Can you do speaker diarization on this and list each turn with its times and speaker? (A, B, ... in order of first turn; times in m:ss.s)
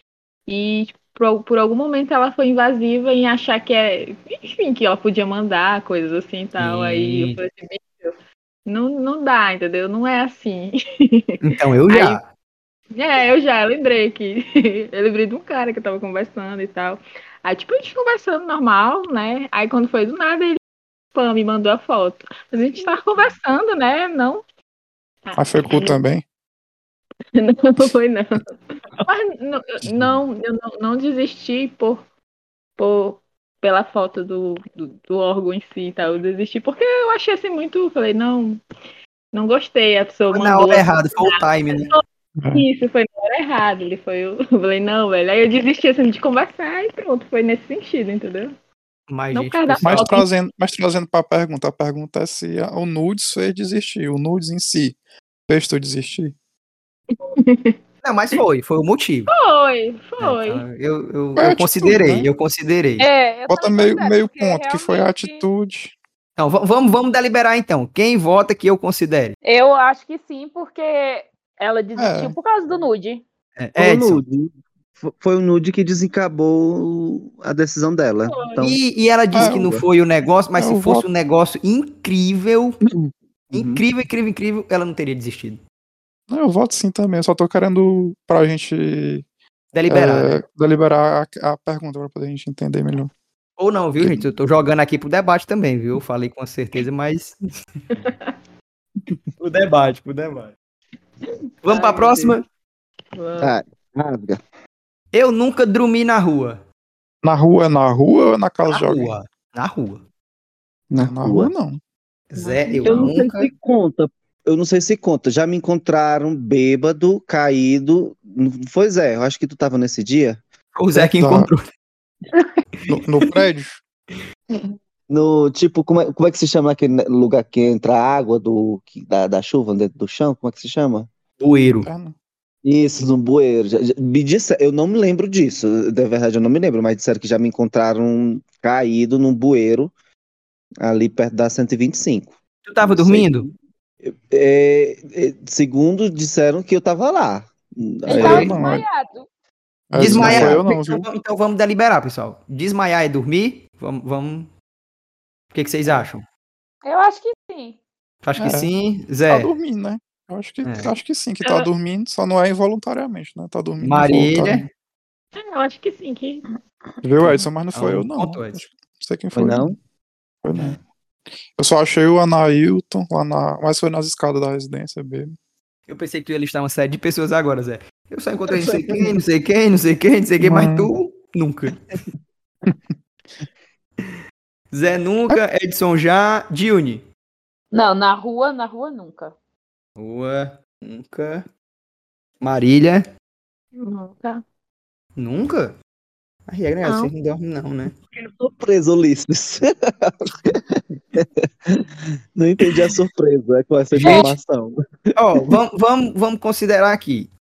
0:00.5-0:08.1 A
0:06.6-0:07.4 B
0:08.6-0:12.2 A
0:11.4-0:12.3 B
0:12.9-0:20.6 A
0:21.1-0:24.4 A
0:25.2-0:26.0 A
0:25.4-0:26.2 C
0:27.4-0:28.5 A
0:29.0-0:32.0 A
0:32.8-0:38.6 A
0:39.3-0:48.5 A
0:40.3-0:41.9 B
0:42.4-0:42.6 C
0:49.1-0:50.1 B
0:49.3-0:50.3 A
0:49.8-0:55.0 C
0:55.5-0:56.3 C
0:57.1-0:57.8 A
0:58.0-0:59.3 B
0:59.3-1:00.6 A
1:00.2-1:03.1 B
1:01.4-1:02.3 C
1:03.0-1:05.4 D
1:03.5-1:05.9 C
1:06.4-1:09.4 B
1:09.4-1:13.2 D
1:12.0-1:12.4 C
1:13.6-1:14.2 B
1:13.8-1:18.8 E
1:18.6-1:22.8 B
1:19.3-1:19.8 C
1:19.4-1:19.8 E
1:20.6-1:21.0 C
1:23.5-1:23.8 E
1:23.5-1:25.6 B
1:26.3-1:29.2 C
1:29.7-1:30.4 B
1:29.9-1:33.1 C
1:33.6-1:37.4 B
1:38.0-1:38.3 A
1:39.4-1:40.6 B
1:41.3-1:42.4 A
1:41.6-1:42.4 B
1:43.1-1:43.5 A
1:43.4-1:44.4 E
1:45.1-1:46.6 B
1:47.2-1:49.1 C
1:48.7-1:50.0 B
1:50.9-1:51.5 E
1:51.0-1:51.8 C
1:52.3-1:53.5 B
1:52.4-1:53.1 A
1:52.8-2:00.4 E
2:00.7-2:01.6 B
2:00.9-2:01.5 C
2:02.9-2:03.8 C
2:05.1-2:11.1 E
2:11.4-2:11.9 B
2:11.8-2:12.1 C
2:12.6-2:19.9 E
2:20.8-2:28.5 E
2:22.6-2:23.5 B
2:28.1-2:29.3 D
2:28.1-2:28.8 C
2:29.9-2:31.1 C
2:30.0-2:34.5 B
2:30.1-2:30.5 E
2:35.5-2:36.2 B
2:36.8-2:37.8 D
2:38.2-2:39.5 B
2:38.4-2:38.7 C
2:39.3-2:44.7 C
2:40.6-2:40.9 B
2:43.8-2:44.6 B
2:45.4-2:46.4 A
2:47.0-2:49.7 C
2:47.2-2:48.6 B
2:49.3-2:49.8 E
2:50.4-2:50.8 C
2:51.6-2:55.4 C
2:55.9-3:01.9 B
3:00.4-3:00.9 C
3:04.7-3:07.0 B
3:07.7-3:09.3 D
3:10.0-3:11.4 B
3:12.4-3:13.0 B
3:13.8-3:14.4 A
3:15.2-3:15.8 B
3:16.5-3:17.9 B
3:16.8-3:17.1 A
3:18.1-3:24.8 E
3:23.9-3:24.3 B
3:25.2-3:27.3 B